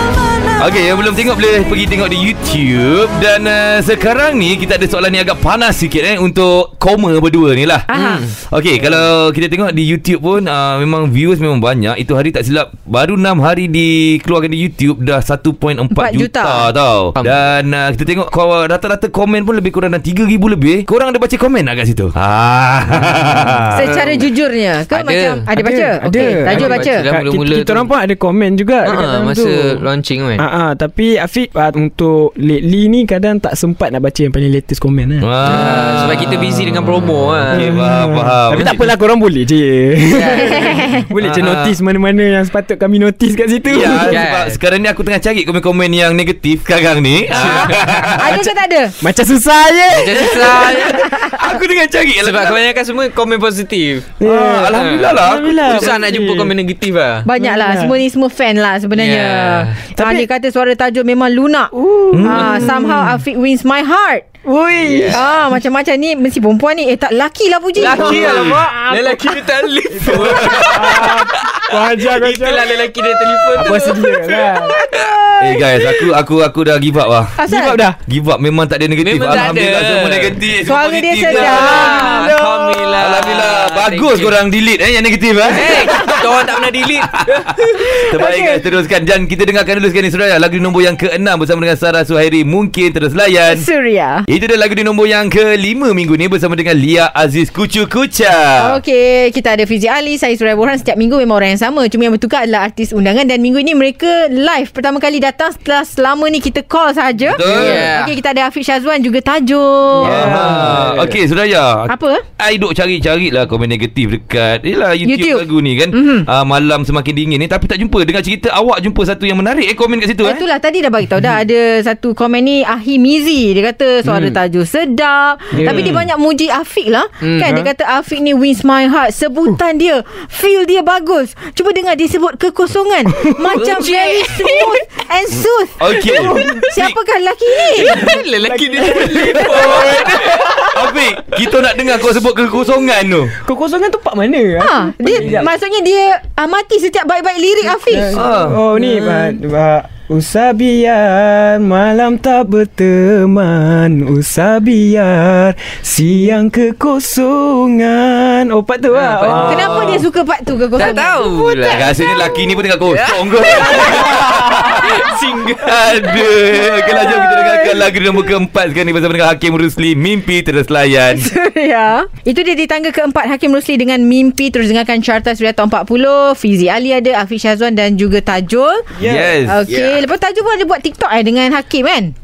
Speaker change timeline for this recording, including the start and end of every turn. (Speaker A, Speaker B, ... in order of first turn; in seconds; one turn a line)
Speaker A: 0.6-7.9
Speaker B: 7.9-8.2
Speaker C: 7.9-8.3
Speaker A: 8.4-23.8
Speaker B: 15.9-16.7
Speaker C: 17.1-17.4
Speaker B: 23.7-27.0
Speaker C: 23.8-24.3
Speaker C: 24.9-25.5
Speaker D: 25.5-29.8
Speaker C: 26.1-27.9
Speaker C: 28.8-30.4
Speaker D: 30.4-36.0
Speaker A: 35.2-38.8
Speaker C: 35.4-37.7
Speaker D: 37.5-44.2
Speaker C: 40.1-40.8
Speaker B: 40.3-41.1
Speaker A: 41.2-41.7
Speaker A: 43.7-48.4
Speaker C: 43.8-44.6
Speaker B: 47.3-49.0
Speaker C: 47.3-48.1
Speaker D: 49.0-50.8
Speaker C: 49.9-51.1
Speaker A: 50.5-52.6
Speaker B: 50.8-51.5
Speaker C: 52.2-54.1
Speaker D: 54.2-56.5
Speaker A: 54.2-56.0
Speaker C: 54.7-57.3
Speaker B: 57.2-61.7
Speaker D: 57.4-58.0
Speaker C: 58.9-59.8
Speaker D: 60.0-60.3
Speaker D: 61.7-63.2
Speaker A: 62.1-62.7
Speaker B: 62.2-64.2
Speaker D: 64.4-65.3
Speaker C: 64.8-65.2
Speaker B: 65.1-68.4
Speaker C: 67.8-75.2
Speaker D: 67.8-69.4
Speaker A: 68.0-68.6
Speaker A: 70.0-71.1
Speaker D: 70.0-72.9
Speaker D: 73.5-74.8
Speaker B: 74.8-75.7
Speaker A: 75.4-77.3
Speaker B: 77.4-77.8
Speaker D: 77.5-78.0
Speaker A: 78.1-82.1
Speaker C: 79.0-80.4
Speaker B: 80.6-82.0
Speaker C: 81.2-84.4
Speaker D: 81.4-83.0
Speaker A: 83.0-86.2
Speaker C: 85.5-88.0
Speaker B: 85.8-86.2
Speaker A: 86.8-93.7
Speaker B: 87.8-88.6
Speaker B: 93.5-94.2
Speaker A: 94.3-98.8
Speaker B: 98.6-110.5
Speaker A: 107.3-107.9
Speaker C: 107.4-108.2
Speaker D: 110.0-111.2
Speaker A: 110.0-120.4
Speaker B: 111.9-112.2
Speaker B: 115.0-116.3
Speaker B: 120.2-138.2
Speaker D: 124.0-124.4
Speaker D: 125.5-126.0
Speaker C: 125.6-126.0
Speaker C: 127.2-127.7
Speaker D: 133.2-133.5
Speaker C: 133.5-134.8
Speaker A: 135.8-136.9
Speaker D: 136.1-136.7
Speaker C: 137.5-140.7
Speaker D: 137.8-140.9
Speaker B: 139.4-139.7
Speaker A: 140.7-143.3
Speaker D: 143.3-145.5
Speaker B: 144.6-148.2
Speaker D: 147.9-160.0
Speaker A: 148.1-148.6
Speaker C: 149.0-149.3
Speaker C: 158.9-159.9
Speaker A: 159.2-160.0
Speaker B: 159.3-161.9
Speaker C: 160.8-162.2
Speaker A: 161.7-165.0
Speaker C: 162.8-166.0
Speaker D: 163.6-165.1
Speaker A: 165.6-171.3
Speaker B: 166.4-167.9
Speaker B: 171.1-178.9
Speaker D: 178.9-179.3
Speaker A: 179.0-179.6
Speaker B: 179.4-182.1
Speaker C: 179.7-180.0